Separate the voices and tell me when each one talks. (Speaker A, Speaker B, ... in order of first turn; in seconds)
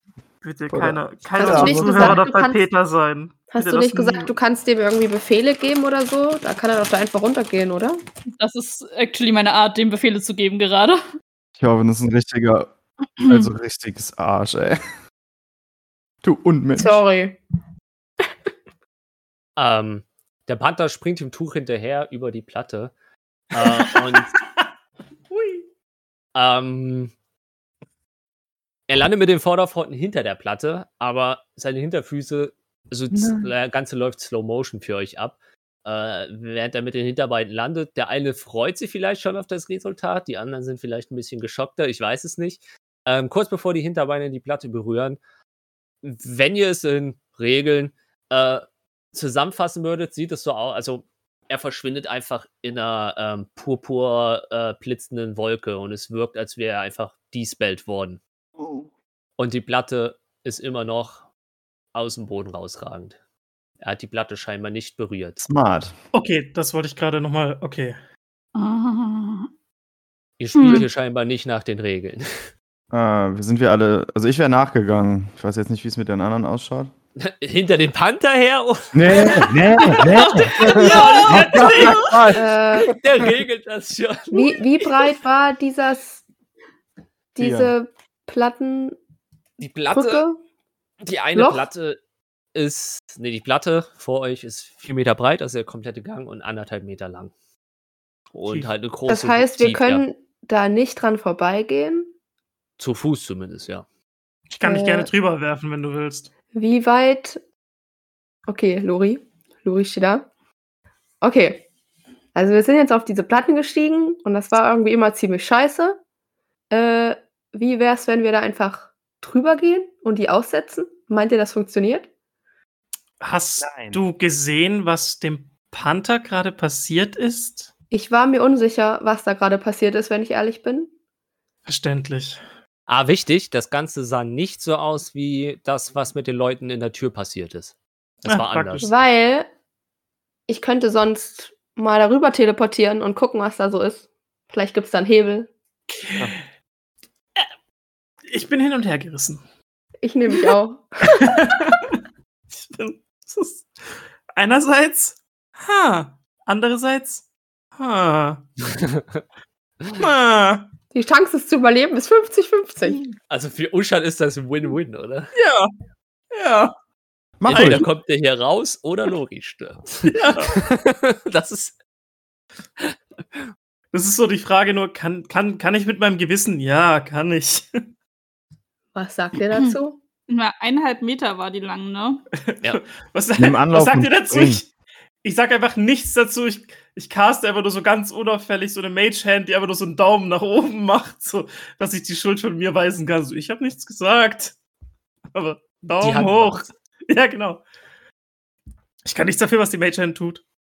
Speaker A: 0.4-4.3, 23.6-24.6, 25.3-25.6, 66.1-68.0, 98.5-98.7, 104.5-106.3, 123.2-127.7, 131.7-132.4, 138.2-138.9, 146.0-146.4, 148.3-149.4, 151.1-152.0, 152.5-157.2, 157.8-158.4, 159.9-160.7, 165.3-165.7, 166.3-166.7, 167.5-167.8, 170.1-170.8, 173.9-177.8, 182.5-184.7, 185.2-194.6, 195.3-197.6, 199.1-200.4
Speaker B: 0.7-2.2, 11.6-14.8, 16.2-17.0, 33.1-33.5, 58.6-58.9, 65.4-65.9, 72.9-76.9, 78.9-82.9, 87.4-87.7, 123.6-124.0, 167.4-167.8, 183.4-184.6
Speaker C: 1.4-2.6, 3.5-8.0, 16.8-17.4, 82.3-82.9, 84.3-86.2, 87.4-89.0, 89.9-90.4, 91.3-91.7, 99.1-102.1, 104.6-105.1, 106.5-107.4, 108.5-110.3, 111.2-111.7, 112.3-116.0, 116.7-122.1, 127.9-130.9, 138.8-139.5, 140.5-145.5, 150.0-151.5, 160.9-163.0, 178.9-180.0
Speaker D: 8.4-11.0, 68.5-69.5, 70.6-70.9, 79.8-82.2, 180.3-182.2
Speaker E: 19.6-22.9, 23.5-24.3, 26.4-27.1, 28.9-45.2, 46.0-58.2, 59.4-61.2, 61.9-63.2, 63.8-65.5, 70.4-72.5, 77.2-85.1, 89.6-90.2, 91.0-92.0, 92.5-97.3, 98.3-100.0, 102.8-103.9, 132.9-138.9, 158.7-159.2, 163.3-165.3, 167.5-171.7, 196.0-196.7